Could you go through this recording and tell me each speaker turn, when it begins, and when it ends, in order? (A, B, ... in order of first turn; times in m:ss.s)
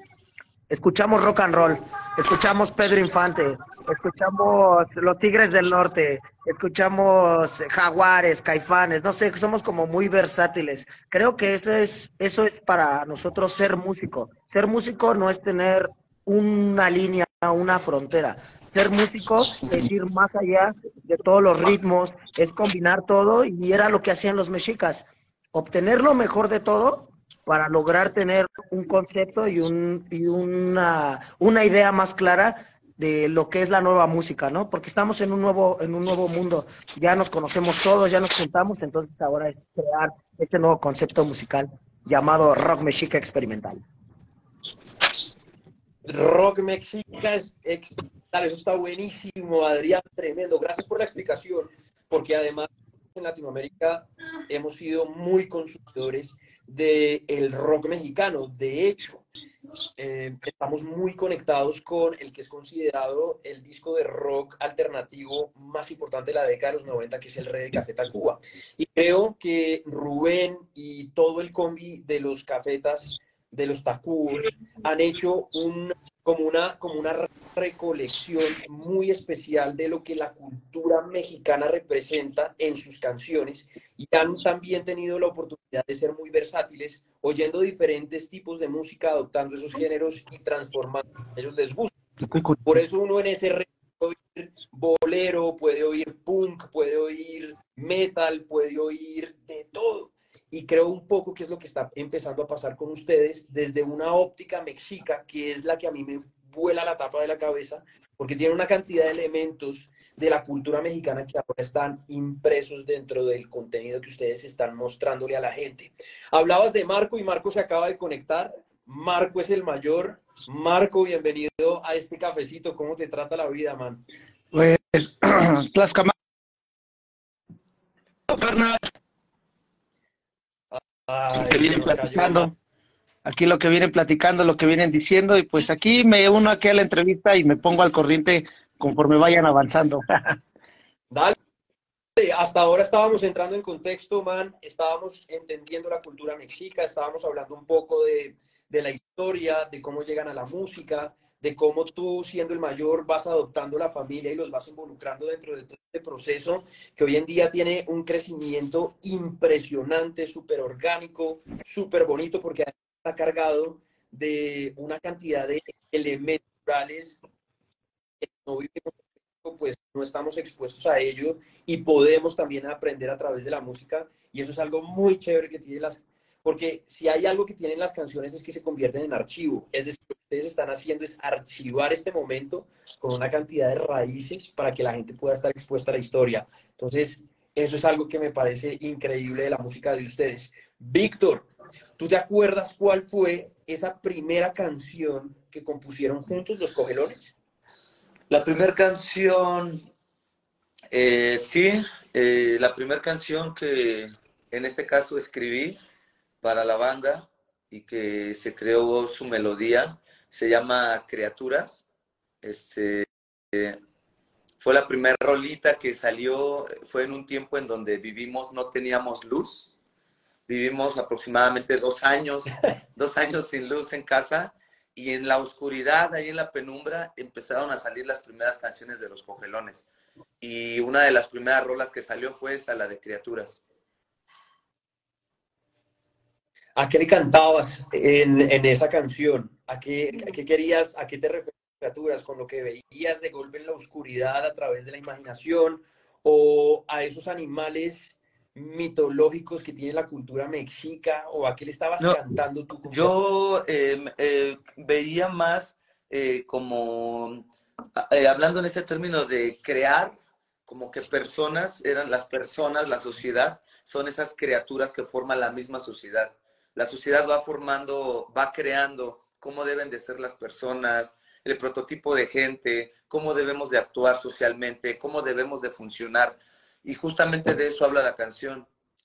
0:00.7-0:43.8 A
0:46.0-0:59.3 B
1:00.0-1:31.9 B
1:32.2-1:32.6 C
1:32.6-2:04.0 B
2:04.5-2:06.1 C
2:08.3-2:08.8 C
2:10.7-2:12.5 B
2:11.3-2:12.5 C
2:13.2-2:20.3 C
2:22.2-2:47.2 B
2:48.2-3:17.3 B
3:18.3-3:19.9 D
3:20.9-3:25.8 D
3:26.4-3:31.8 D
3:32.4-3:33.8 D
3:34.6-3:39.7 D
3:40.5-3:49.8 D
3:50.4-3:53.6 D
3:56.8-4:13.1 B
4:12.9-4:17.4 D
4:17.9-4:20.1 D
4:20.7-4:38.7 D